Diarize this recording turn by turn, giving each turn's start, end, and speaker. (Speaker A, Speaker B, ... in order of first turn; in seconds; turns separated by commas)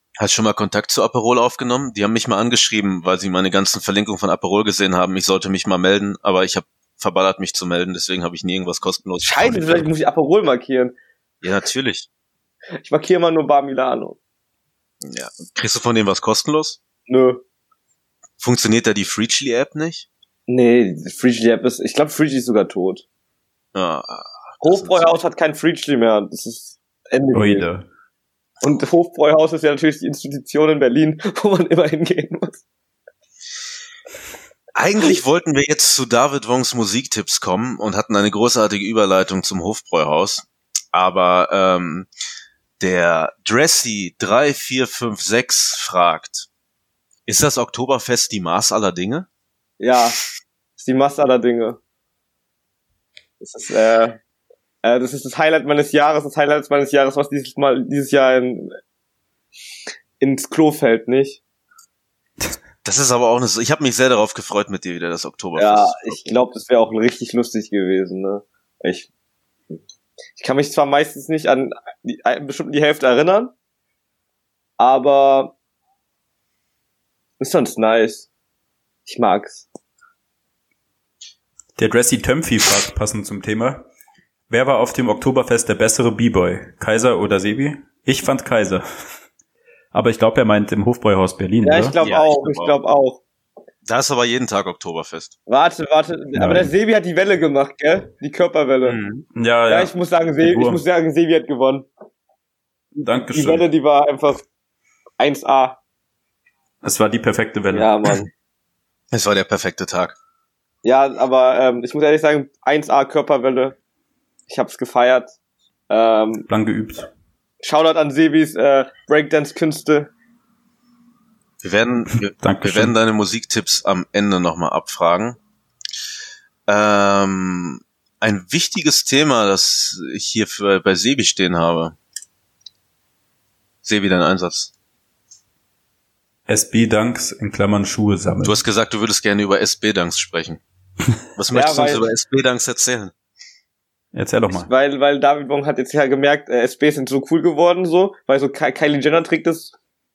Speaker A: 0.2-9.9, Speaker B: 9.2-10.9, Speaker A: 11.4-12.1, Speaker B: 12.8-14.2, Speaker A: 15.0-16.8, Speaker B: 17.1-17.4, Speaker A: 18.4-20.1, Speaker B: 20.5-23.0, Speaker A: 23.7-25.1, Speaker B: 24.6-27.7, Speaker C: 27.3-27.9, Speaker B: 28.6-32.6, Speaker A: 34.7-42.1, Speaker A: 42.8-46.5, Speaker A: 47.2-49.3, Speaker B: 49.8-50.2, Speaker B: 50.8-51.8, Speaker B: 53.4-54.2, Speaker B: 54.8-58.8, Speaker B: 60.2-61.4, Speaker A: 62.8-66.3, Speaker B: 65.5-69.1, Speaker B: 70.4-73.5, Speaker B: 74.8-75.5, Speaker B: 77.4-78.3, Speaker B: 79.0-79.7, Speaker C: 81.8-83.9, Speaker C: 84.5-88.8, Speaker C: 89.9-92.0, Speaker B: 91.6-93.2, Speaker A: 92.0-92.7, Speaker A: 93.8-95.3, Speaker B: 95.5-99.0, Speaker C: 96.3-96.7, Speaker A: 98.8-99.2, Speaker C: 99.3-100.8, Speaker B: 99.7-101.9, Speaker C: 103.0-103.7, Speaker B: 103.3-104.4, Speaker B: 105.2-105.8, Speaker C: 106.8-107.9, Speaker B: 107.7-108.3, Speaker A: 109.1-110.1, Speaker B: 110.8-113.8, Speaker B: 114.5-115.3, Speaker B: 115.9-116.5, Speaker C: 116.5-117.1, Speaker B: 117.6-120.1, Speaker A: 121.6-125.4, Speaker C: 122.4-122.9, Speaker A: 126.7-132.0, Speaker A: 133.8-134.7, Speaker C: 136.5-138.6, Speaker A: 138.4-140.6, Speaker A: 141.3-143.1, Speaker B: 141.5-142.1, Speaker C: 144.1-144.7, Speaker B: 144.5-149.7